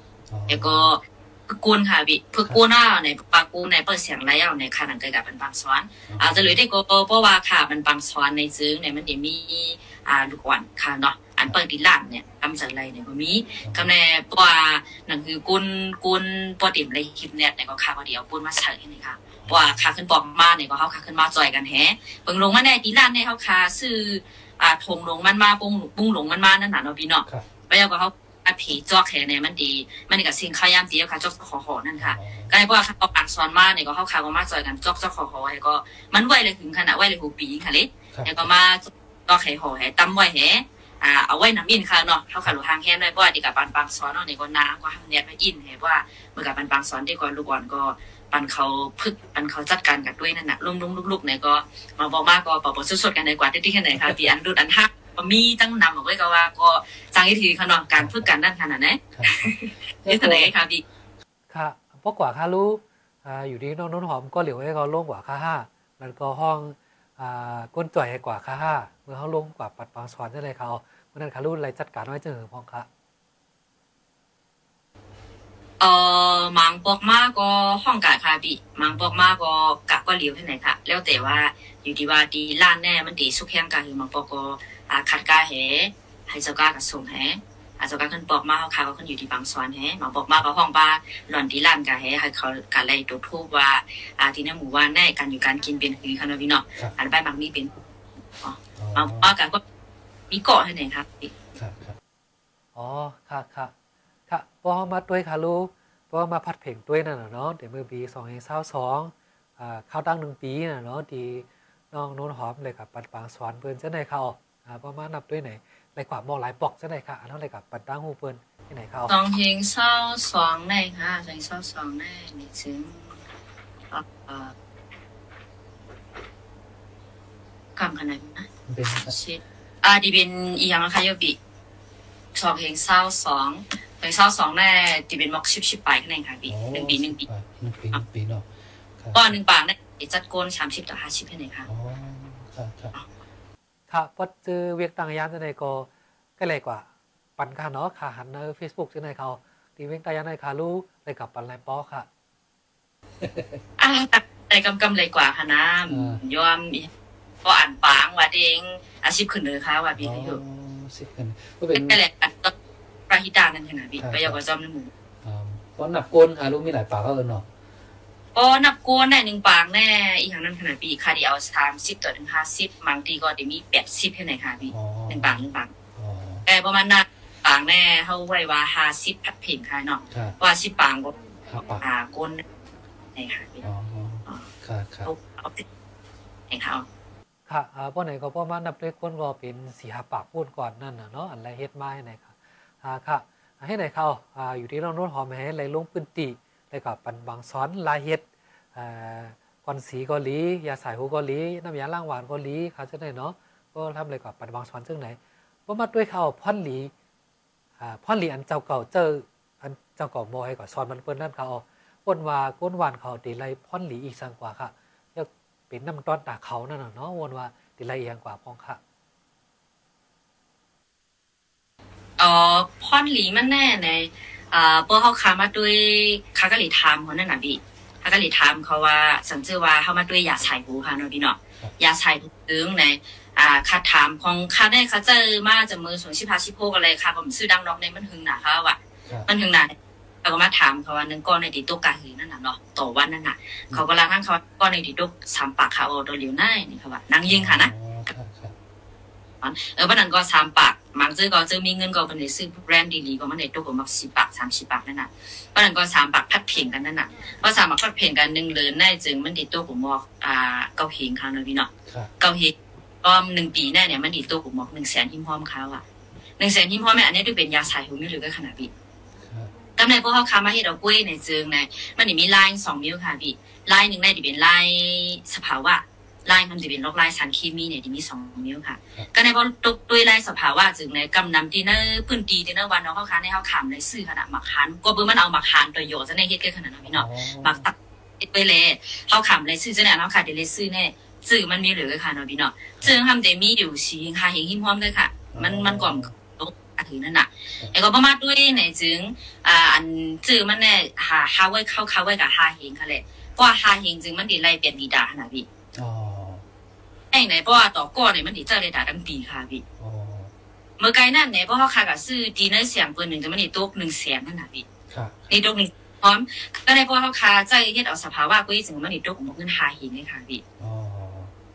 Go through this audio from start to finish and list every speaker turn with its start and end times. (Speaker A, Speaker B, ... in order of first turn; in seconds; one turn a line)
Speaker A: 0.3-0.9
Speaker B: 0.5-60.8
Speaker A: 6.1-6.6
Speaker A: 13.6-13.9
Speaker A: 19.4-19.8
Speaker A: 32.0-32.5
Speaker A: 38.1-38.5
Speaker A: 53.9-54.3
Speaker A: 58.0-58.3
Speaker A: 59.1-60.5
Speaker C: 61.5-72.9
Speaker B: 75.8-97.8
Speaker A: 78.8-79.3
Speaker A: 81.1-81.4
Speaker B: 98.4-99.6
Speaker A: 98.8-99.3
Speaker B: 100.3-101.3
Speaker A: 101.5-102.0
Speaker C: 102.7-103.7
Speaker C: 104.3-119.1
Speaker B: 119.1-123.1
Speaker B: 123.9-124.5
Speaker B: 127.8-131.4
Speaker A: 128.7-129.1
Speaker B: 132.3-137.2
Speaker A: 136.5-138.5
Speaker A: 139.0-139.3
Speaker B: 139.1-141.7
Speaker A: 141.6-142.9
Speaker C: 143.9-152.1
Speaker A: 153.2-153.6
Speaker B: 153.8-156.9
Speaker A: 155.9-156.2
Speaker B: 157.4-160.4
Speaker A: 160.0-162.0
Speaker B: 161.7-162.5
Speaker B: 163.1-164.9
Speaker A: 164.0-164.4
Speaker A: 165.2-167.4
Speaker B: 168.3-175.7
Speaker A: 174.7-175.4
Speaker A: 175.9-176.4
Speaker B: 176.4-181.1
Speaker A: 180.1-180.3
Speaker A: 181.4-181.8
Speaker B: 181.8-182.4
Speaker B: 183.1-183.6
Speaker A: 183.6-185.1
Speaker B: 185.0-185.6
Speaker B: 186.5-186.8
Speaker C: 187.5-206.9
Speaker C: 207.8-218.8
Speaker B: 222.2-247.7
Speaker A: 247.2-248.6
Speaker B: 249.4-265.8
Speaker A: 261.9-262.1
Speaker B: 266.4-268.7
Speaker A: 269.2-269.5
Speaker B: 269.8-305.4
Speaker A: 286.9-287.7
Speaker A: 295.3-296.1
Speaker A: 305.8-306.4
Speaker B: 307.1-309.6
Speaker A: 309.8-310.3
Speaker B: 310.8-314.6
Speaker A: 314.9-315.3
Speaker B: 315.3-320.4
Speaker A: 320.6-321.3